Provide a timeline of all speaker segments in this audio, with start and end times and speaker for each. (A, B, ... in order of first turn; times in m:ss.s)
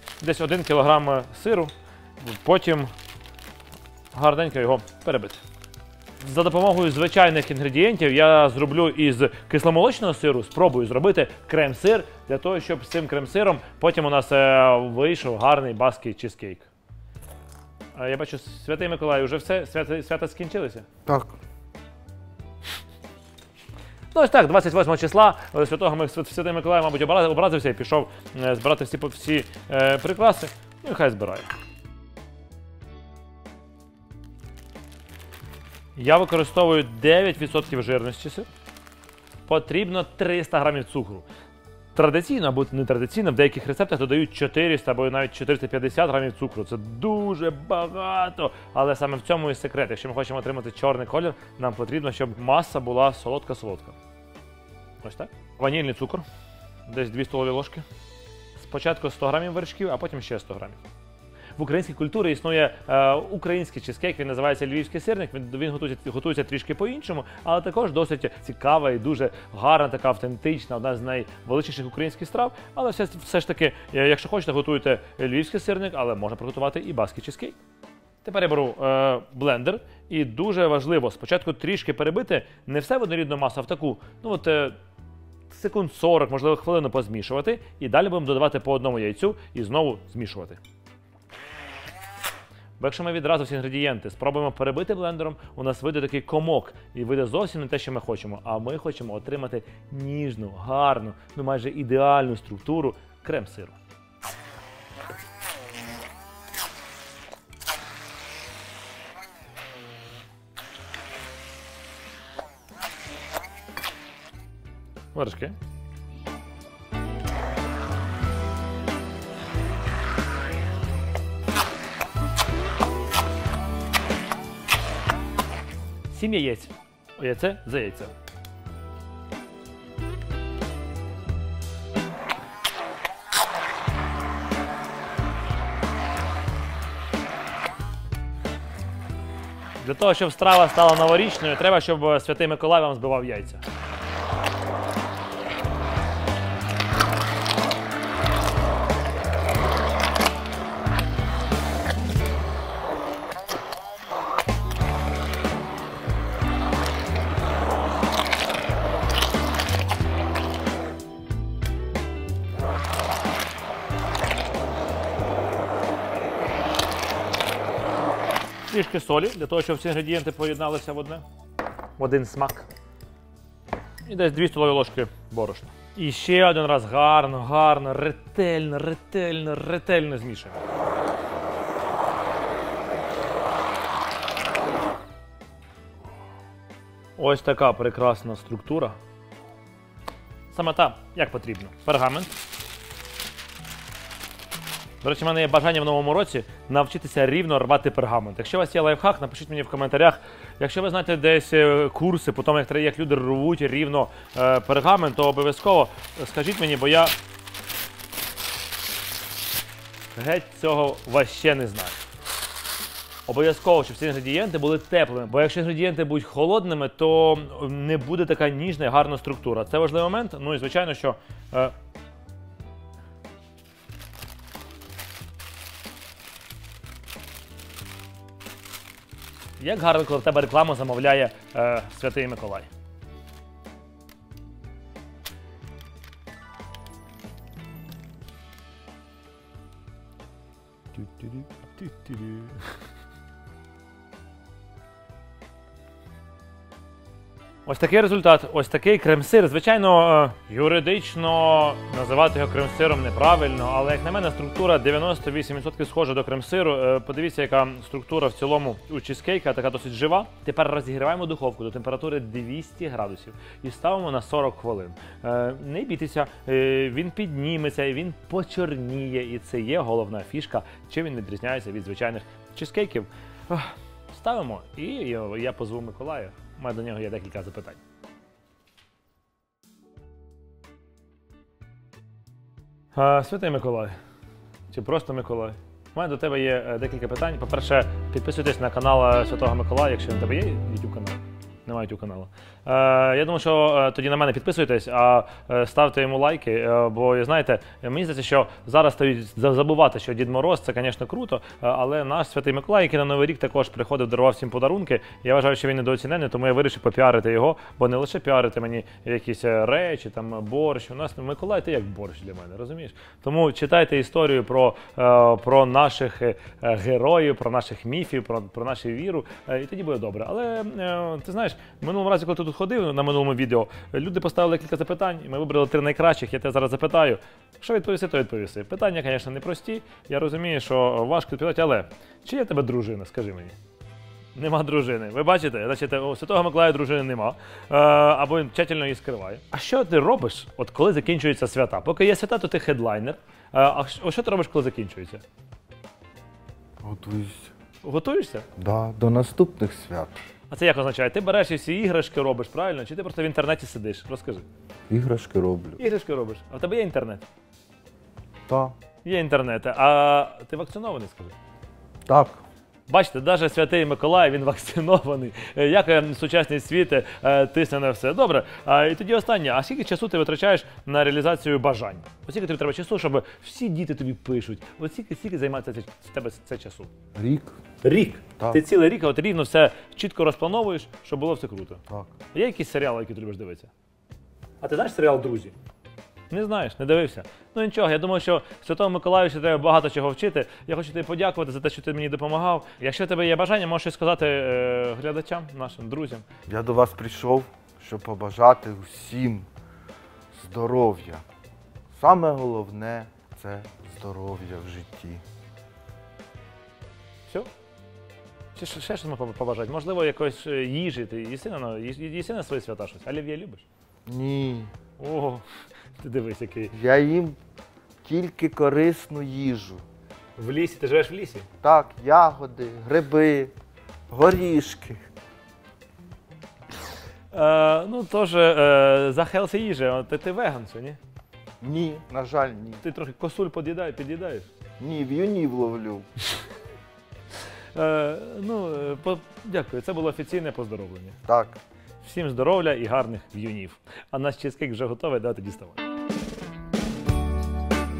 0:00.2-0:02.9 A
0:04.1-0:05.4 A
0:06.2-0:16.7 A
0:17.9-0:20.9 A
0:21.0-0:21.3 B
0:24.1-0:31.5 A
0:36.0-0:38.5 A
0:39.4-0:41.3 A
0:41.9-0:54.0 A
0:55.0-0:56.2 A
0:56.9-0:57.8 A
0:58.6-1:00.8 A
1:01.6-1:17.6 A
1:18.2-1:24.7 A
1:25.5-1:30.6 A
1:32.8-1:43.8 A
1:55.1-1:55.5 A
2:06.1-2:08.1 A
2:19.8-2:23.6 A
2:48.7-2:51.2 A
2:52.0-2:52.7 A
2:54.0-3:00.6 A
3:07.2-3:09.0 A
3:10.5-3:12.3 A
3:15.0-3:27.1 A
3:30.1-3:32.0 A
3:33.2-3:41.7 A
3:49.6-3:52.7 A
4:01.0-4:02.6 A
4:07.6-4:37.8 A
4:42.9-4:43.9 A
4:44.7-5:33.6 A
5:34.3-5:45.2 A
5:46.8-5:47.5 B
5:47.8-5:48.5 A
5:48.6-5:50.2 B
5:50.5-5:54.4 A
5:54.9-5:55.8 B
5:55.8-5:57.2 A
5:58.5-5:58.7 B
5:59.0-6:01.3 A
6:02.1-6:02.4 B
6:02.9-6:16.9 A
6:17.2-6:17.5 B
6:17.8-6:23.7 A
6:24.6-6:25.5 A
6:26.3-6:36.2 A
6:36.5-6:39.5 B
6:40.3-6:41.2 B
6:41.9-6:45.2 B
6:48.6-6:53.6 A
6:54.0-6:54.7 B
6:55.0-6:55.4 A
6:56.0-6:56.7 A
6:56.7-6:57.4 B
6:58.0-6:59.8 B
7:00.4-7:01.5 A
7:01.6-7:03.5 B
7:04.1-7:05.0 B
7:07.3-7:11.0 A
7:11.6-7:12.8 B
7:12.8-7:14.5 A
7:14.8-7:16.1 B
7:17.7-7:21.2 A
7:21.2-7:21.6 B
7:22.0-7:25.8 A